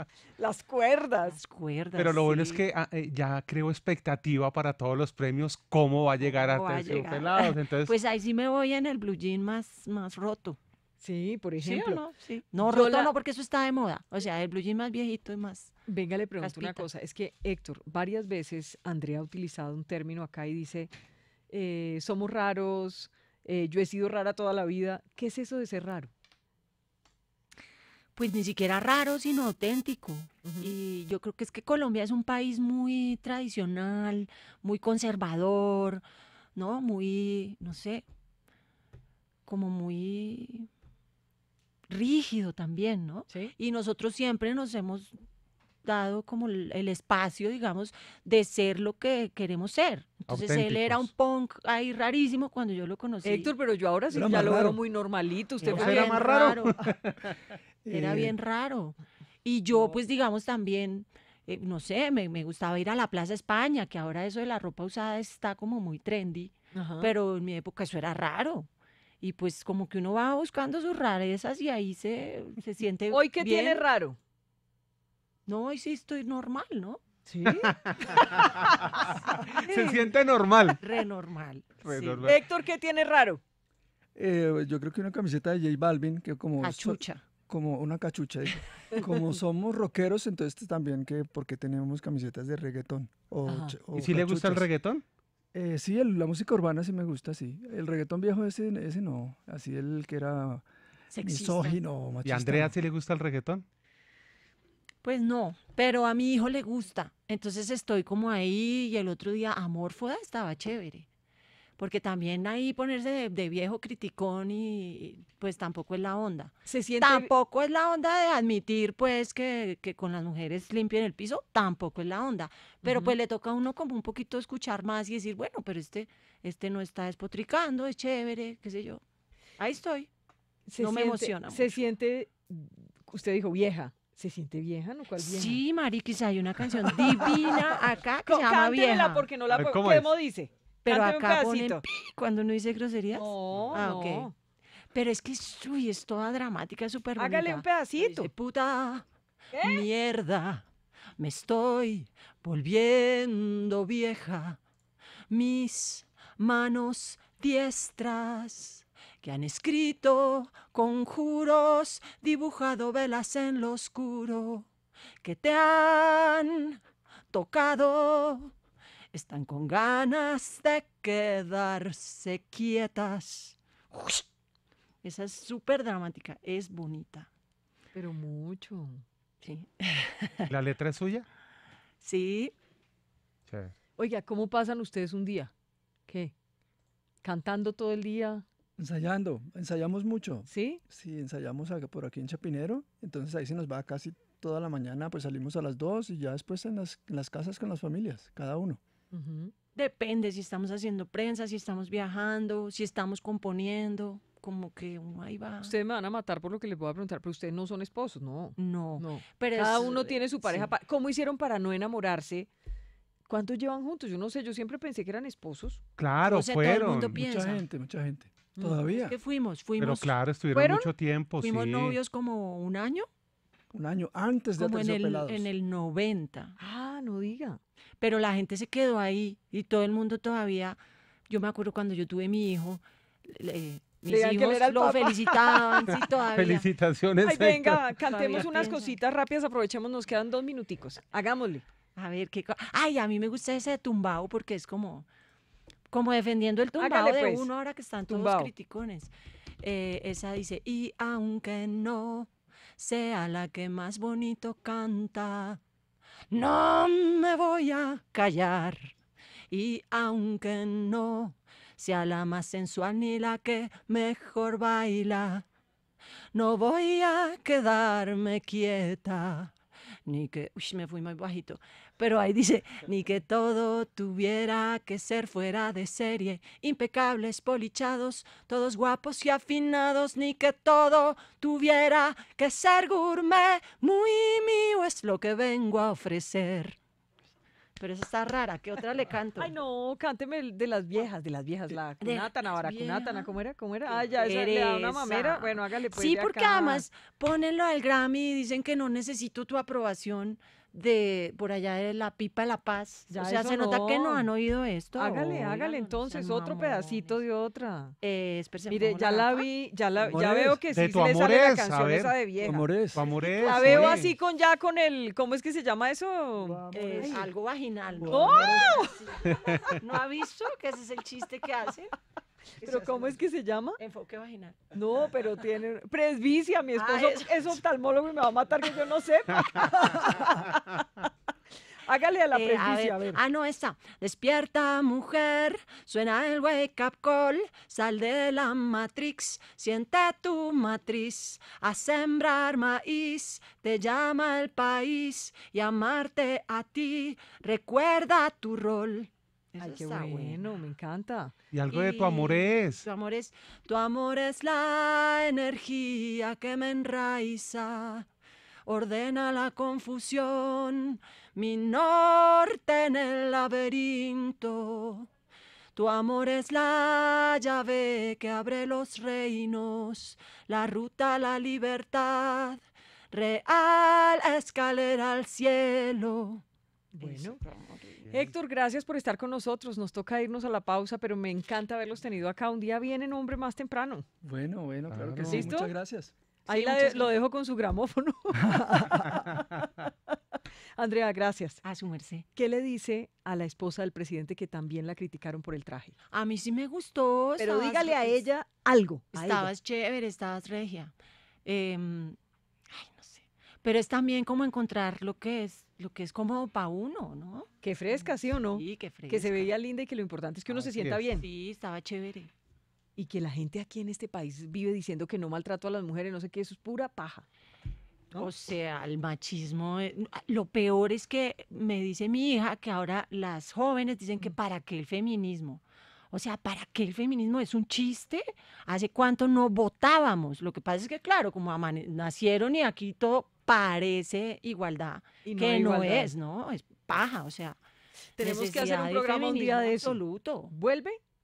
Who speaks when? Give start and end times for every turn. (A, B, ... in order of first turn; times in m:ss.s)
0:00.4-0:01.4 A
0:01.2-0:02.6 B
0:02.0-0:07.9 C
0:06.2-0:10.6 B
0:11.0-0:12.0 A
0:11.6-0:15.7 B
0:12.6-0:13.1 A
0:15.9-0:20.9 A
0:16.4-0:16.9 B
0:21.5-0:26.1 A
0:28.2-0:36.0 B
0:30.4-0:30.7 A
0:36.5-0:38.0 B
0:39.4-0:40.7 B
0:41.9-0:45.1 B
0:45.8-0:53.5 B
0:50.3-0:51.1 C
0:53.2-0:56.4 A
0:54.1-0:54.8 D
0:55.6-0:57.4 C
0:55.7-0:56.8 B
0:57.8-0:58.3 D
0:57.9-1:08.7 B
1:06.7-1:07.1 A
1:09.2-1:13.8 B
1:13.1-1:14.2 A
1:15.5-1:17.0 B
1:17.3-1:18.4 A
1:17.5-1:20.8 C
1:19.6-1:20.2 B
1:20.8-1:22.2 B
1:21.8-1:22.4 C
1:22.0-1:23.4 A
1:24.2-1:34.7 D
1:26.6-1:27.2 B
1:33.4-1:33.8 A
1:33.9-1:35.0 C
1:35.5-1:40.6 D
1:41.1-1:41.8 B
1:41.2-1:42.8 D
1:42.2-1:43.6 C
1:45.0-1:51.1 B
1:51.8-2:09.0 B
1:56.6-1:57.3 A
2:02.8-2:03.1 A
2:09.6-2:10.1 B
2:10.7-2:15.6 A
2:10.8-2:11.8 B
2:15.2-2:19.3 B
2:18.2-2:21.8 A
2:19.5-2:20.1 C
2:20.8-2:24.3 B
2:23.1-2:24.3 A
2:24.9-2:29.0 B
2:27.2-2:28.3 A
2:29.5-2:29.8 A
2:29.6-2:30.6 B
2:31.2-2:34.6 B
2:35.3-2:44.7 B
2:45.2-2:46.8 B
2:47.3-2:48.5 B
2:49.1-2:54.2 B
2:55.0-2:57.3 B
2:57.9-2:59.0 A
2:59.4-3:00.5 B
3:00.5-3:01.3 C
3:02.0-3:02.5 B
3:03.5-3:03.7 C
3:04.0-3:05.5 A
3:06.1-3:06.3 A
3:07.2-3:08.4 A
3:08.8-3:18.8 D
3:10.5-3:10.8 A
3:19.1-3:19.5 A
3:19.8-3:25.8 B
3:25.6-3:32.5 A
3:28.6-3:30.7 B
3:33.3-3:35.8 A
3:36.0-3:37.2 C
3:36.2-3:37.6 B
3:37.1-3:39.2 D
3:38.9-3:40.2 B
3:39.8-3:42.0 C
3:40.5-3:40.9 A
3:41.4-3:43.1 B
3:43.7-3:45.5 D
3:44.6-3:46.6 B
3:46.6-3:47.6 A
3:48.0-3:56.7 B
3:54.0-3:55.8 A
3:55.9-3:58.6 C
3:57.2-4:01.6 A
3:58.0-3:59.0 B
4:02.0-4:05.0 B
4:05.9-4:15.6 B
4:06.8-4:07.5 A
4:08.1-4:08.5 A
4:16.3-4:18.9 B
4:19.5-4:25.4 B
4:26.3-4:29.5 B
4:30.0-4:46.8 B
4:47.8-4:49.5 B
4:49.4-4:56.8 A
4:52.0-4:53.3 B
4:53.9-5:07.2 B
5:03.1-5:04.3 A
5:05.0-5:08.0 A
5:08.0-5:09.5 B
5:08.7-5:17.2 A
5:10.1-5:10.6 D
5:10.7-5:12.2 C
5:12.4-5:14.0 D
5:12.9-5:14.1 C
5:16.4-5:17.3 D
5:16.7-5:21.9 B
5:18.0-5:18.9 D
5:18.1-5:19.0 A
5:19.2-5:19.8 C
5:22.6-5:23.2 B
5:22.6-5:23.8 A
5:23.8-5:24.6 B
5:24.7-5:31.0 A
5:26.8-5:27.5 B
5:31.8-5:33.2 A
5:32.3-5:50.4 B
5:49.6-5:51.3 A
5:51.5-5:52.9 C
5:51.7-5:58.1 B
5:58.6-6:05.1 B
6:05.7-6:16.4 B
6:16.9-6:17.4 A
6:17.0-6:18.1 B
6:18.1-6:24.0 A
6:24.2-6:26.1 D
6:24.9-6:25.5 C
6:25.3-6:25.7 A
6:26.4-6:27.1 B
6:26.5-6:29.9 A
6:28.5-6:28.7 D
6:30.8-6:31.6 A
6:31.6-6:32.2 B
6:32.3-6:36.0 A
6:36.1-6:38.2 B
6:37.4-6:39.5 A
6:39.1-6:40.9 B
6:41.4-6:42.2 B
6:42.7-6:49.5 B
6:47.6-6:51.2 A
6:50.5-6:51.1 C
6:51.1-6:52.3 B
6:53.0-6:57.2 A
6:58.1-7:17.6 B
7:15.2-7:16.1 A
7:18.2-7:21.0 A
7:18.2-7:20.5 B